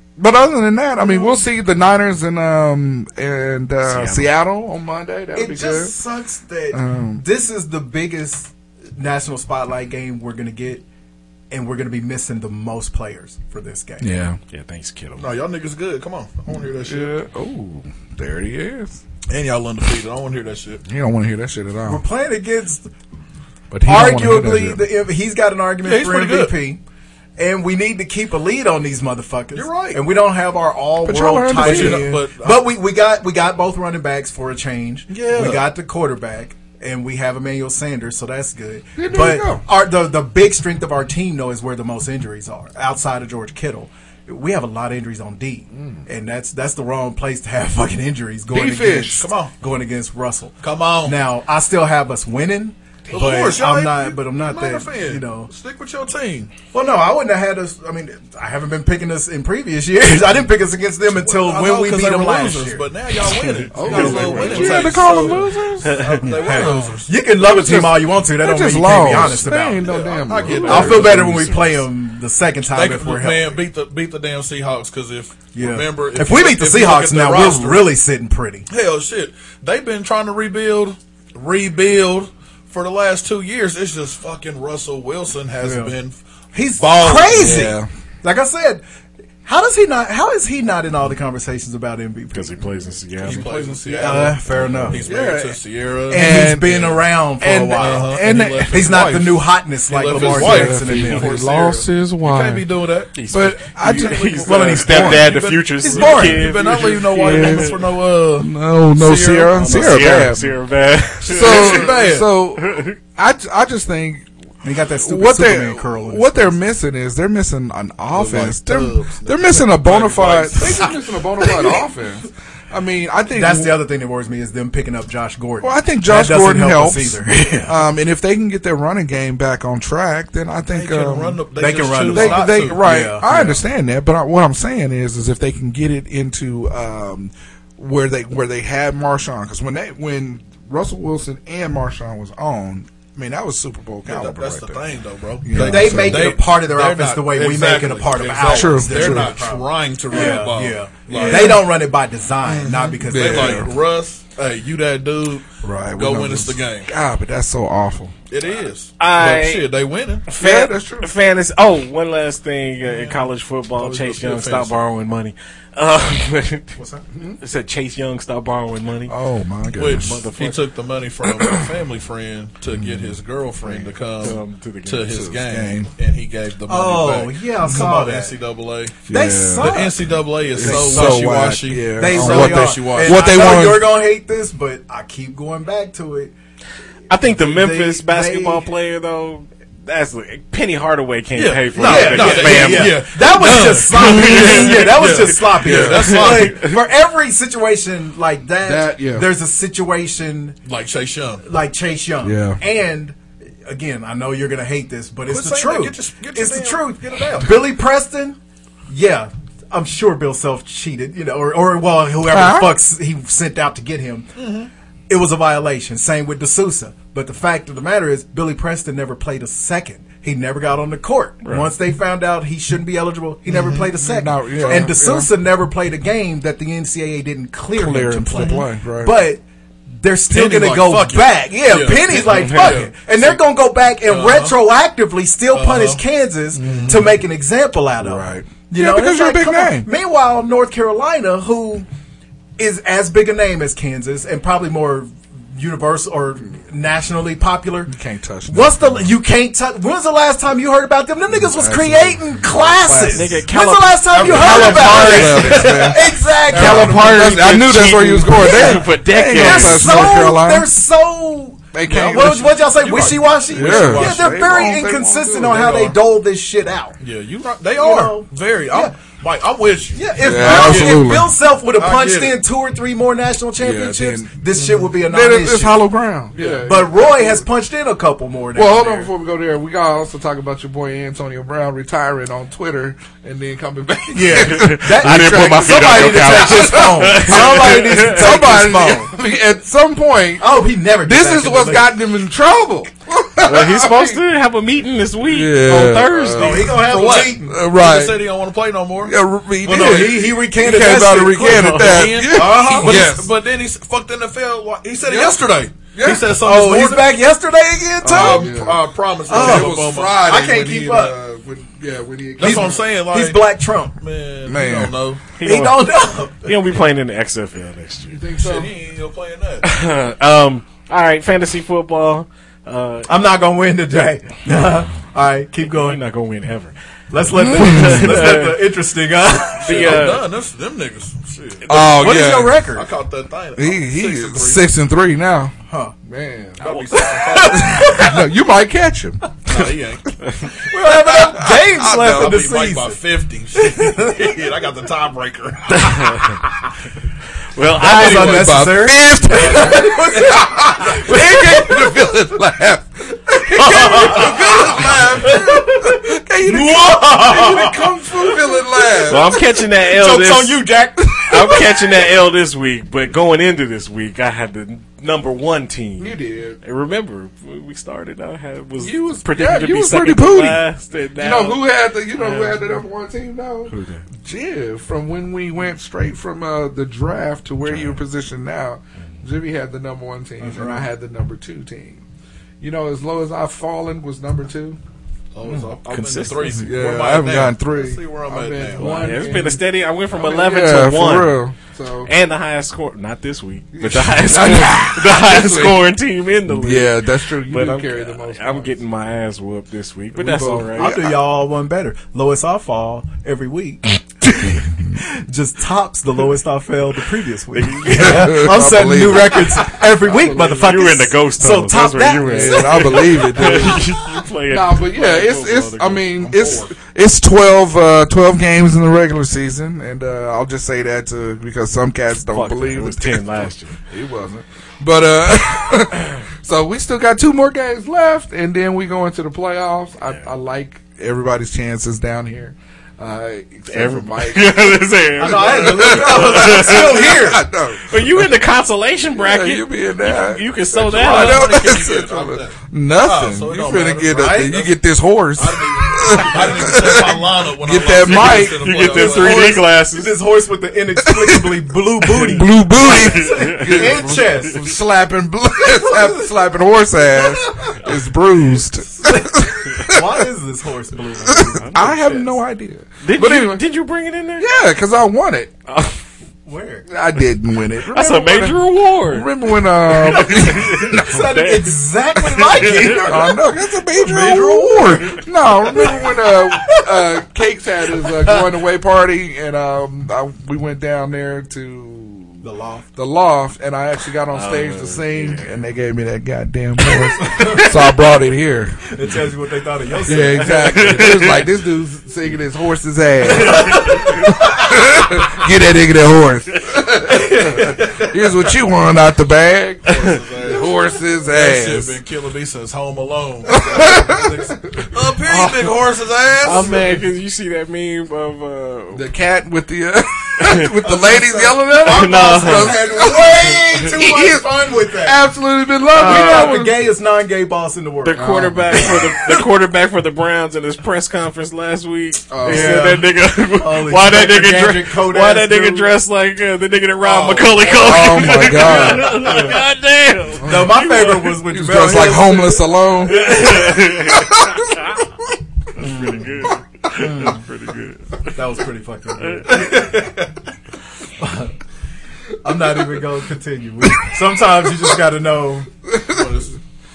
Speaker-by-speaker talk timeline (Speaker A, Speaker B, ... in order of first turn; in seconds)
Speaker A: 0.2-6.0, 6.7-7.2, 14.0-14.4, 16.5-19.0, 20.9-22.0, 23.7-24.9, 31.0-32.1, 39.0-39.6, 45.7-46.0, 48.5-49.3, 63.7-66.0, 67.3-71.2, 87.3-87.9, 93.3-93.7, 94.9-99.1, 100.1-102.7, 103.3-105.4, 107.0-107.8, 108.4-110.5, 111.2-114.2, 115.0-123.8, 125.6-131.4, 132.1-144.9, 145.4-146.4, 148.5-149.4, 151.1-151.6, 153.1-153.7, 155.6-158.2, 160.4-161.1, 169.1-170.2, 172.7-173.2, 175.1-175.9, 179.1-179.9, 180.5-183.9, 195.6-196.1, 198.6-199.3, 202.2-202.6, 212.2-212.8, 223.5-225.3, 227.7-229.3, 236.5-237.1, 238.0-239.9, 247.9-249.1, 251.3-253.4, 254.1-260.7, 261.7-262.7, 263.5-265.7, 270.2-271.3, 273.6-274.4, 275.0-277.4, 278.5-290.5, 291.0-294.2, 295.2-298.2, 299.0-303.3, 305.0-306.3, 308.0-312.8, 314.4-315.0, 318.1-318.7, 327.3-328.3, 331.7-332.5, 333.6-339.2, 341.0-342.4, 348.1-359.4, 366.0-366.6, 368.8-370.6, 371.1-382.0, 382.6-384.8, 386.5-392.1, 393.7-395.9, 396.4-398.8, 400.1-401.2, 404.4-404.7, 407.9-410.7, 412.2-413.9, 414.5-438.4, 439.1-448.8, 451.1-460.2, 461.2-463.6, 464.4-465.5, 466.9-471.2, 473.0-482.4, 482.9-489.2, 490.0-502.0, 503.5-504.5, 506.5-506.8, 508.9-516.8, 518.1-519.3, 522.3-523.0, 527.6-529.5, 530.4-534.7, 545.9-546.3
Speaker B: 1.0-1.4, 5.3-10.8, 11.5-14.1, 21.8-22.9, 23.8-26.8, 27.4-55.5, 56.7-62.9, 63.9-65.4, 66.2-69.9, 70.7-73.6, 75.5-78.7, 85.6-85.9, 86.5-88.8, 89.4-92.8, 93.3-95.0, 96.1-101.4, 104.5-106.8, 114.6-116.6, 123.3-127.8, 131.6-133.7, 145.5-153.7, 166.8-167.0, 176.7-178.3, 179.1-186.3, 187.2-188.7, 191.8-200.6, 201.4-208.4, 208.9-214.3, 215.1-229.4, 230.0-241.9, 242.6-247.9, 248.5-257.3, 258.4-267.0, 267.8-269.0, 269.9-275.9, 276.5-279.1, 284.1-289.1, 290.4-292.0, 296.4-297.5, 299.7-303.1, 306.4-308.6, 309.3-311.1, 312.4-313.9, 315.4-316.6, 323.1-326.0, 327.1-330.1, 331.7-332.9, 335.7-335.9, 337.1-338.2, 340.7-343.0, 343.6-344.4, 347.7-351.9, 353.5-361.7, 380.4-380.9, 400.7-413.8, 435.2-437.4, 444.1-444.6, 448.9-454.7, 455.6-456.4, 457.1-457.9, 458.9-462.3, 466.4-466.9, 470.8-473.4, 473.9-477.2, 482.4-482.9, 487.1-487.7, 488.9-491.1, 493.4-494.6, 497.1-497.7, 510.8-515.3, 515.9-519.1, 522.4-525.9, 527.0-527.7, 528.6-529.6, 530.4-533.5, 535.8-536.3, 536.9-537.4, 538.3-540.4, 541.2-541.6, 542.4-545.7
Speaker C: 3.8-4.3, 14.5-15.3, 63.8-65.2, 65.8-66.3, 70.4-71.8, 92.3-94.2, 101.1-102.2, 103.1-107.8, 109.5-113.0, 159.0-159.7, 160.3-166.8, 167.4-169.1, 169.9-170.6, 174.2-175.1, 187.1-193.0, 193.9-195.2, 195.8-196.7, 221.4-221.7, 232.3-232.8, 253.1-255.9, 256.5-260.2, 284.4-288.4, 293.4-296.8, 315.4-315.9, 316.4-318.2, 319.6-323.1, 325.7-326.7, 327.5-328.6, 329.6-330.2, 345.7-346.4, 347.5-348.4, 359.1-360.6, 361.1-372.7, 373.7-374.0, 377.6-378.0, 385.9-386.6, 388.8-391.4, 392.0-401.1, 407.5-408.7, 410.1-416.3, 422.3-423.8, 430.1-430.3, 433.7-437.2, 437.9-441.7, 448.0-450.1, 452.8-454.6, 461.6-462.2, 463.0-464.5, 465.7-466.0, 467.9-473.1, 484.3-485.5, 490.3-491.4, 493.5-494.2, 506.4-509.1, 510.4-510.7, 511.7-512.8, 516.0-516.5, 518.0-531.4, 533.0-535.0, 535.8-538.4
Speaker D: 15.2-17.2, 19.3-20.8, 25.8-26.6, 29.5-30.0, 31.5-32.6, 35.1-35.7, 49.2-49.5, 50.6-51.2, 53.1-56.5, 61.1-67.1, 69.3-71.2, 72.7-78.0, 78.7-86.2, 86.8-87.6, 93.2-96.9, 97.7-103.1, 103.8-110.0, 111.3-112.3, 118.1-120.9, 130.7-132.8, 144.0-151.6, 152.4-156.9, 158.3-160.2, 162.8-164.8, 169.8-179.0, 179.6-183.6, 191.3-196.6, 200.7-201.4, 205.3-207.5, 214.3-214.7, 230.3-233.4, 234.0-234.6, 235.5-236.0, 236.6-237.1, 254.3-255.8, 256.5-257.6, 261.9-264.8, 265.3-266.0, 267.0-271.1, 271.7-272.4, 274.5-274.9, 276.4-276.9, 296.8-300.3, 301.6-307.2, 308.0-310.4, 312.4-315.2, 318.4-319.6, 329.6-334.7, 336.6-337.7, 339.4-340.1, 341.9-346.1, 347.8-349.9, 353.9-355.4, 385.3-389.2, 416.2-416.7, 440.9-444.7, 445.3-449.6, 499.8-506.9, 546.0-546.6